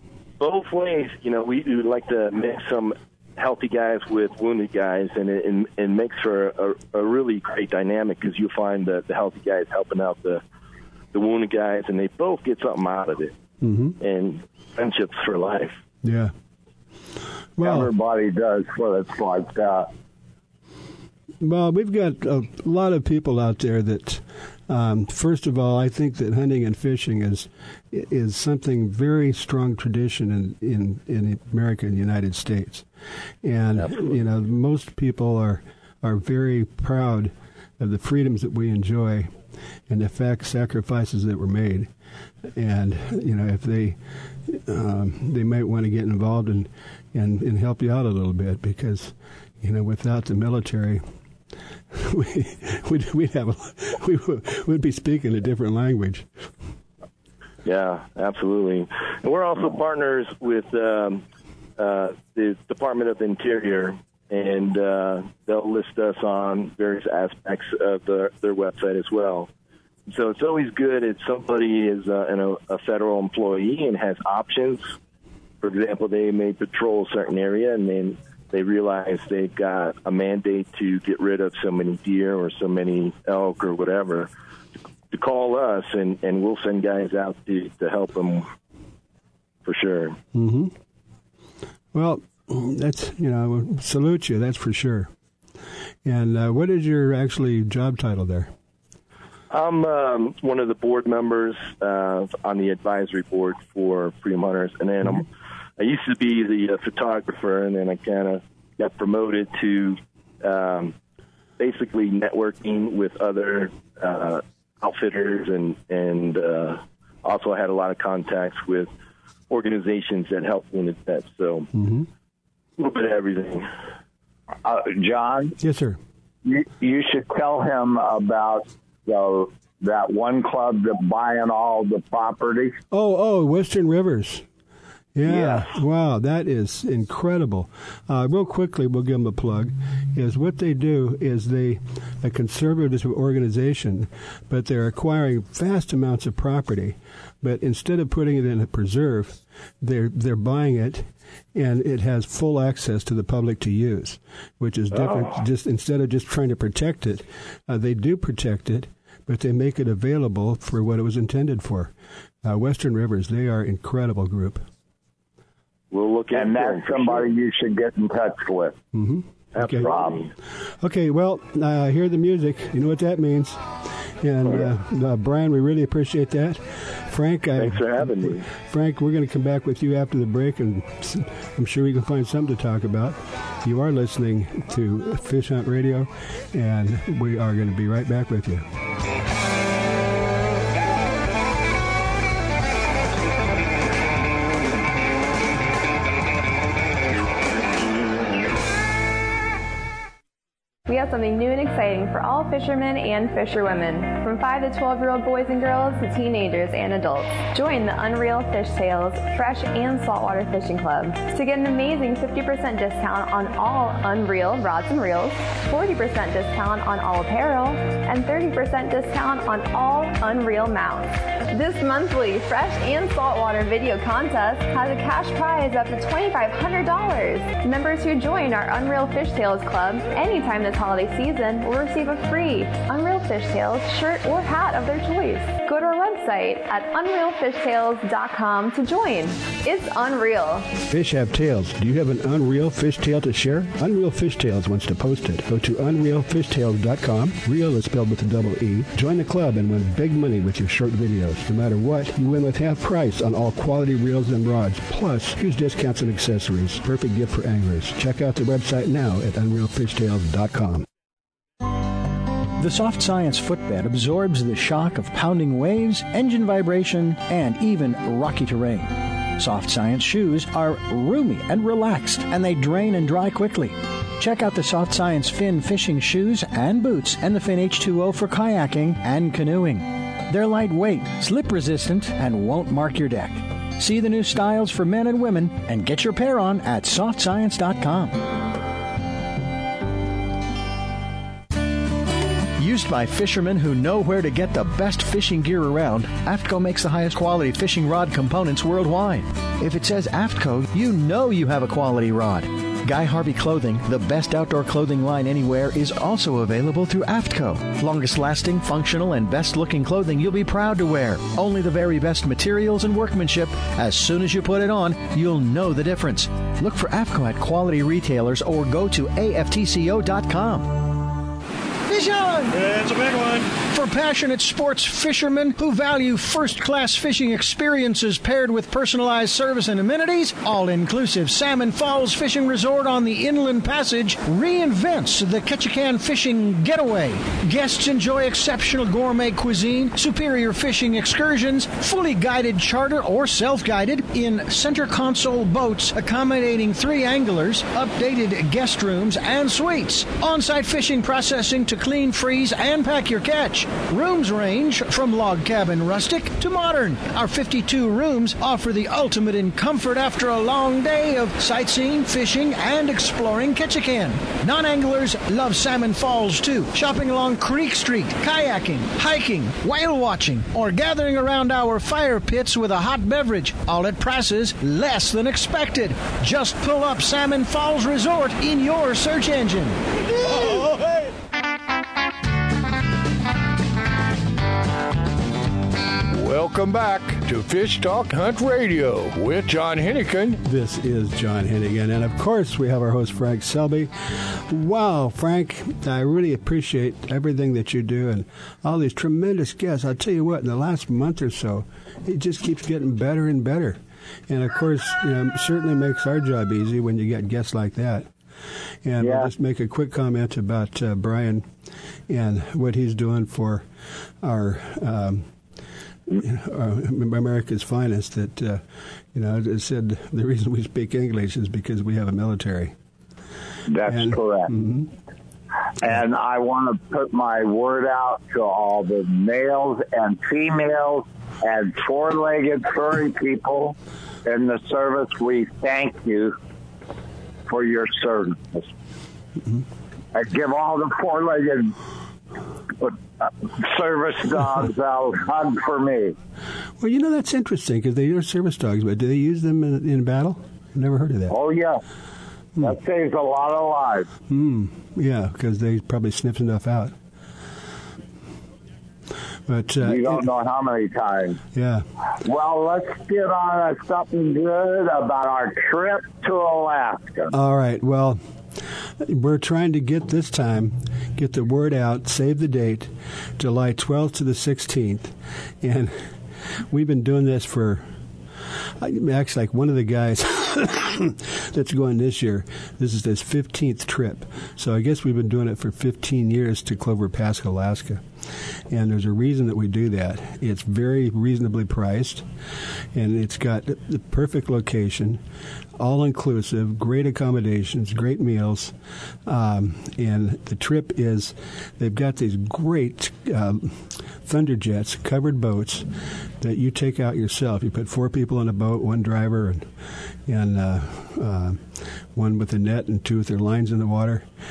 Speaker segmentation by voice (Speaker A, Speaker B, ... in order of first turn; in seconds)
Speaker A: 0.4-10.4, 11.1-13.3, 14.0-15.8, 57.6-61.2, 61.8-69.5, 70.1-74.9, 75.6-84.3, 85.1-88.5, 89.7-90.2, 99.5-105.3, 105.8-111.0, 111.6-118.9, 119.5-121.7, 122.8-123.7, 154.9-155.3, 165.9-167.3, 169.6-170.3, 177.6-178.5
Speaker B: 13.6-14.0, 16.0-16.3, 17.6-17.9, 21.4-32.9, 33.4-39.3, 39.9-41.9, 42.5-51.0, 51.9-56.3, 90.3-90.7, 91.9-95.1, 96.0-98.5, 121.8-122.1, 125.6-126.0, 132.9-134.4, 135.2-161.9, 162.4-164.6, 168.9-169.9, 170.8-188.7, 240.9-260.9, 390.4-408.1, 408.9-411.5, 412.1-413.7, 414.2-415.3, 416.1-418.6, 419.1-422.8, 423.9-424.9, 446.8-451.4, 454.3-456.9, 459.5-460.3, 461.5-461.9, 467.3-468.2, 469.0-476.1, 476.7-477.9, 478.8-488.0, 488.7-492.3, 492.9-495.2, 495.8-498.8, 499.3-505.9, 506.4-509.7, 510.3-514.3
Speaker C: 17.6-19.9, 124.6-125.6, 126.5-132.8, 135.3-135.6, 166.3-168.8, 169.8-170.2, 409.0-409.3, 423.7-424.5, 425.8-436.3, 437.5-438.7, 440.1-441.7, 442.8-446.1, 451.3-451.8, 452.6-454.1, 459.8-461.4, 462.2-467.3
Speaker D: 200.9-240.7
Speaker E: 262.6-288.3, 292.6-321.0, 321.9-380.7
Speaker F: 386.1-390.4